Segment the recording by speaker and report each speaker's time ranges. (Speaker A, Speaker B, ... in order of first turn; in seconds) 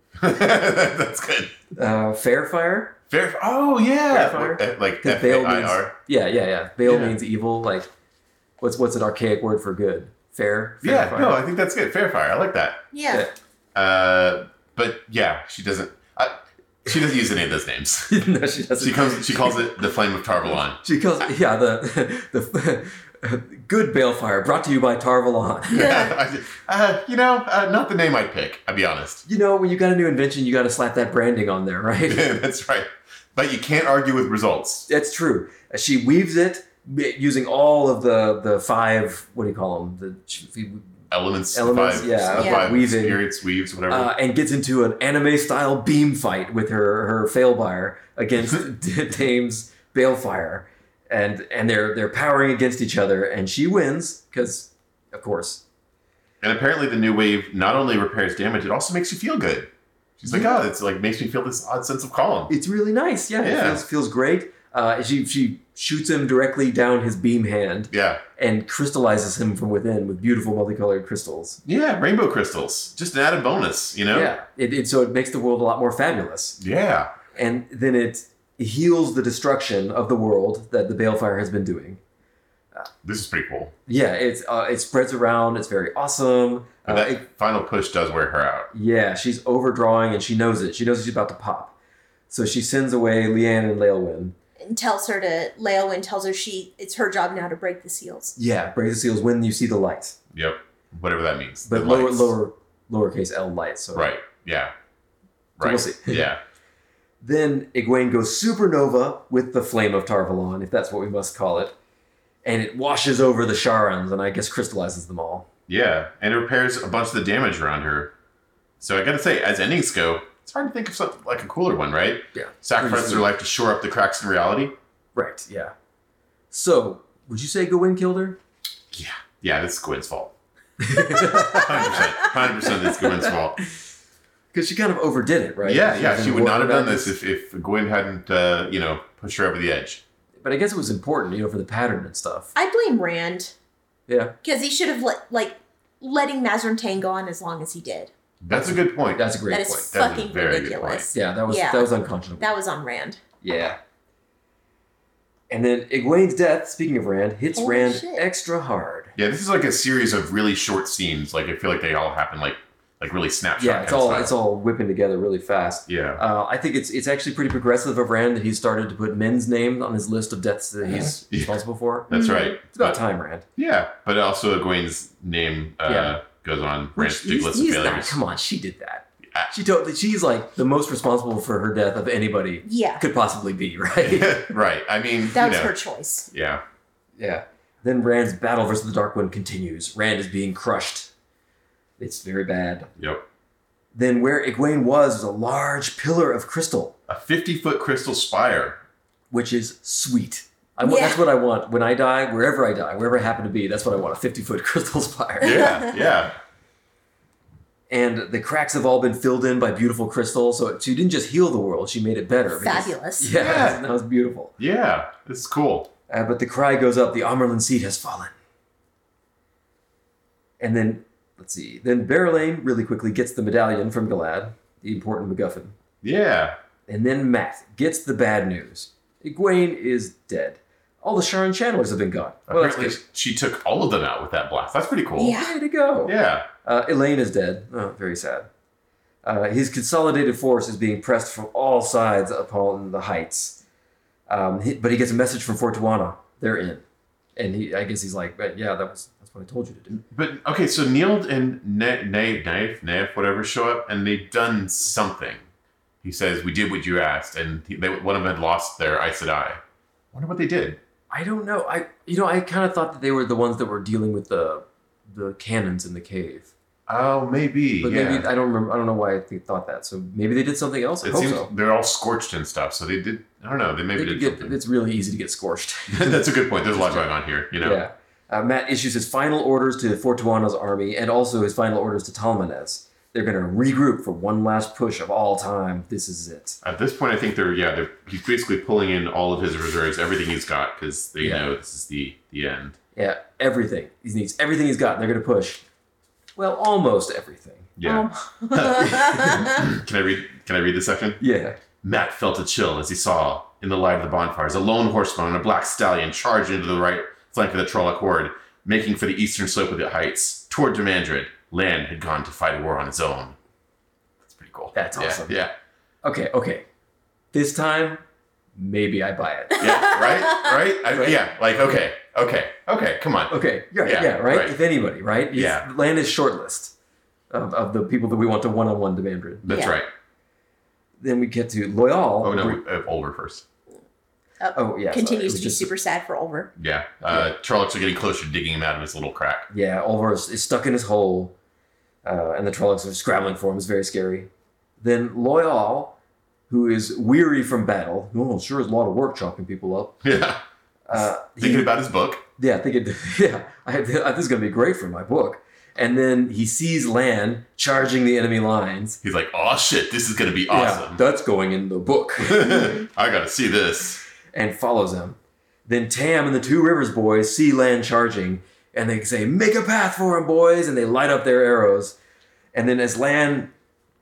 Speaker A: 0.2-1.6, 3.1-5.9, 6.8-7.2, 10.8-12.8, 13.7-18.2, 18.8-20.8, 25.7-29.2, 32.0-34.9, 41.1-44.1, 56.4-62.5, 63.4-63.8, 67.9-68.2, 71.6-74.3, 76.6-77.1, 83.0-83.7, 86.9-88.7, 100.3-102.3, 103.9-104.7, 105.6-106.4, 115.7-118.1, 118.8-124.7, 128.9-130.3, 130.9-133.6, 135.6-140.0, 148.4-149.3, 149.9-151.1, 159.2-164.3, 165.9-166.2, 170.9-173.0, 173.6-178.2, 184.0-185.7, 186.3-186.6, 193.0-193.2, 197.1-198.8, 205.4-206.4, 213.3-213.8, 214.6-215.9, 226.0-226.6, 232.5-235.4, 236.0-236.5, 250.1-255.4, 256.0-259.6, 260.1-260.8, 266.9-268.3, 271.0-274.6, 275.9-277.8, 286.6-292.8, 297.8-301.2, 301.8-313.4, 314.2-315.5, 319.6-324.5, 325.3-325.6, 329.4-329.9, 332.2-333.4, 336.6-339.5, 350.0-350.4, 351.4-352.2, 359.0-361.0, 362.2-364.0
Speaker B: 1.7-3.0, 4.1-7.9, 8.6-11.4, 18.1-19.6, 20.8-25.9, 29.2-32.2, 34.9-40.9, 41.5-43.2, 43.9-55.6, 60.2-60.6, 62.5-71.6, 74.1-76.6, 77.3-82.0, 83.9-87.2, 88.7-91.7, 92.3-94.3, 98.4-100.2, 101.7-104.1, 105.6-106.3, 107.2-111.7, 112.4-115.5, 122.3-123.3, 125.1-125.7, 126.5-128.4, 130.8-132.0, 132.6-133.3, 134.5-137.1, 140.4-142.5, 144.1-144.3, 148.5-149.9, 151.1-152.5, 153.4-153.8, 155.5-159.1, 163.6-173.4, 175.8-176.2, 176.9-184.5, 187.2-191.1, 192.0-192.9, 193.9-196.9, 199.3-205.8, 207.9-214.5, 216.1-218.3, 220.6-225.7, 226.9-233.0, 235.3-238.5, 239.2-243.6, 244.3-246.8, 247.3-250.0, 261.1-266.5, 267.8-271.5, 273.9-277.1, 277.6-286.6, 291.2-291.5, 292.9-295.6, 296.4-297.7, 298.8-299.4, 301.2-301.6, 314.7-315.4, 316.0-316.6, 317.3-318.0, 318.6-319.9, 320.9-321.2, 323.3-326.7, 327.3-329.4, 331.0-332.6, 334.5-335.7, 339.5-341.3, 342.0-345.9, 346.5-350.0, 350.9-351.7, 352.4-359.0, 360.5-362.7, 364.3-371.9, 372.5-373.5
Speaker C: 12.9-13.3, 25.7-26.1, 42.3-42.7, 94.6-98.3, 142.5-143.5, 144.4-148.1, 149.5-153.2, 157.5-158.2, 172.1-172.5, 182.6-183.0, 185.3-186.3, 200.8-201.2, 205.4-205.9, 212.5-213.3, 235.2-235.5, 297.8-299.6, 319.6-320.6, 329.5-329.8, 334.4-336.5